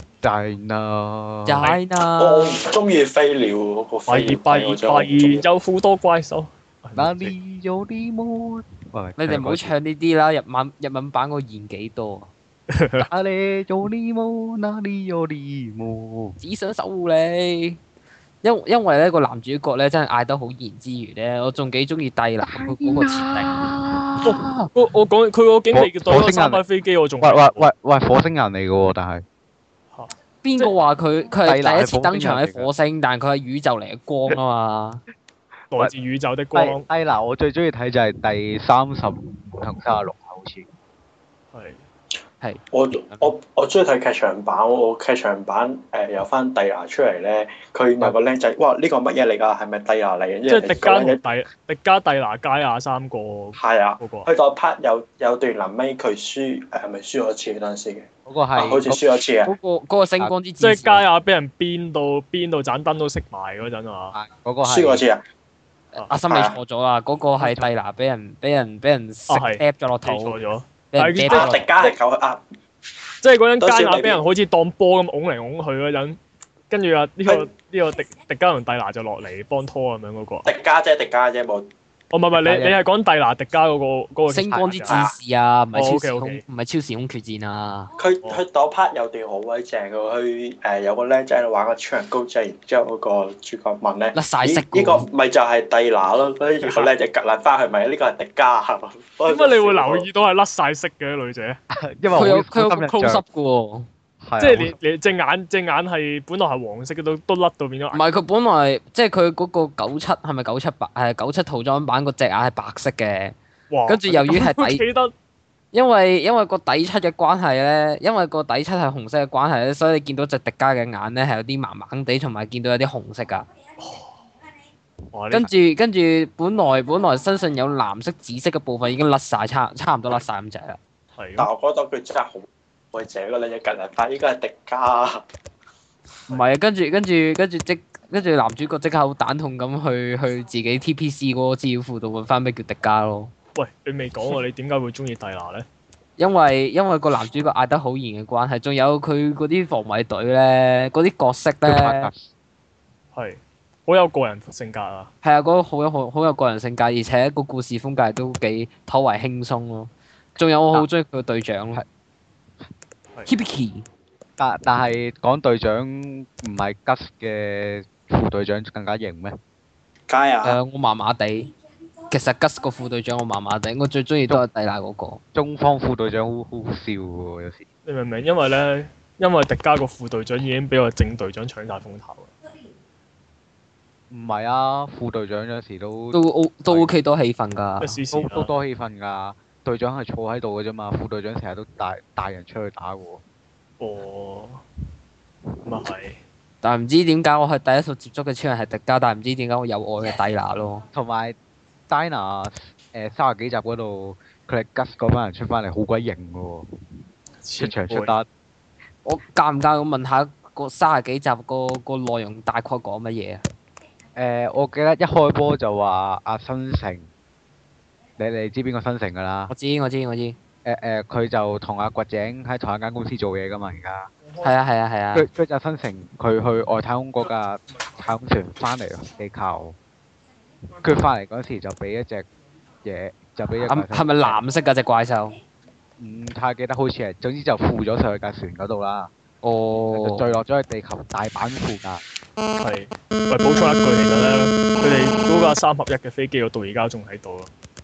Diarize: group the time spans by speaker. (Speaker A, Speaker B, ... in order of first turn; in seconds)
Speaker A: 0.2-1.7, 7.0-9.7, 13.0-16.4, 22.4-24.3, 25.7-26.6, 27.2-29.2, 31.4-32.7, 36.5-40.7, 58.3-59.0, 64.1-65.0, 82.4-82.8, 101.7-103.2, 104.2-104.8, 151.7-152.3, 164.4-169.4, 175.3-177.7, 184.1-186.9, 188.1-193.2, 200.9-201.4, 201.9-206.7, 207.6-208.3, 214.2-217.1, 218.2-219.5, 220.7-224.1, 225.1-229.8, 230.8-232.3, 232.8-234.4, 236.0-239.1, 239.9-242.0
Speaker B: 1.5-2.6, 9.2-12.3, 16.4-17.8, 18.4-24.7, 30.4-35.0, 42.4-43.3, 59.5-61.0, 66.0-70.4, 70.9-71.6, 84.3-87.9, 94.2-95.1, 102.2-103.9, 107.9-113.4, 113.9-114.8, 115.7-123.5, 125.3-130.8, 136.3-143.3, 146.2-152.1, 155.2-161.8, 163.3-163.9, 170.4-171.5, 172.1-175.2, 186.1-188.0, 196.6-200.8, 209.1-213.4, 219.5-220.4, 224.4-225.3, 233.6-235.4, 239.4-240.3
Speaker C: 2.2-5.4, 42.7-51.2, 53.6-59.5, 64.6-65.2, 66.3-66.6, 71.3-72.4, 73.6-74.2, 80.5-81.7, 84.9-85.2, 88.0-100.1, 131.4-135.2, 170.1-170.6
Speaker D: 4.1-7.3, 12.7-13.1, 24.2-27.7, 29.9-30.7, 35.7-36.9, 50.5-54.3, 60.6-64.1, 69.3-71.9, 73.2-76.2, 76.7-80.5, 82.1-85.0, 85.7-86.4, 96.6-96.9, 99.3-101.6, 104.4-108.0, 113.7-115.1, 123.8-124.1, 125.1-125.5, 131.2-131.5, 143.6-145.7, 153.2-155.1, 177.9-182.3, 187.8-188.5, 193.8-194.6, 195.6-196.2, 207.4-208.1, 242.6-247.5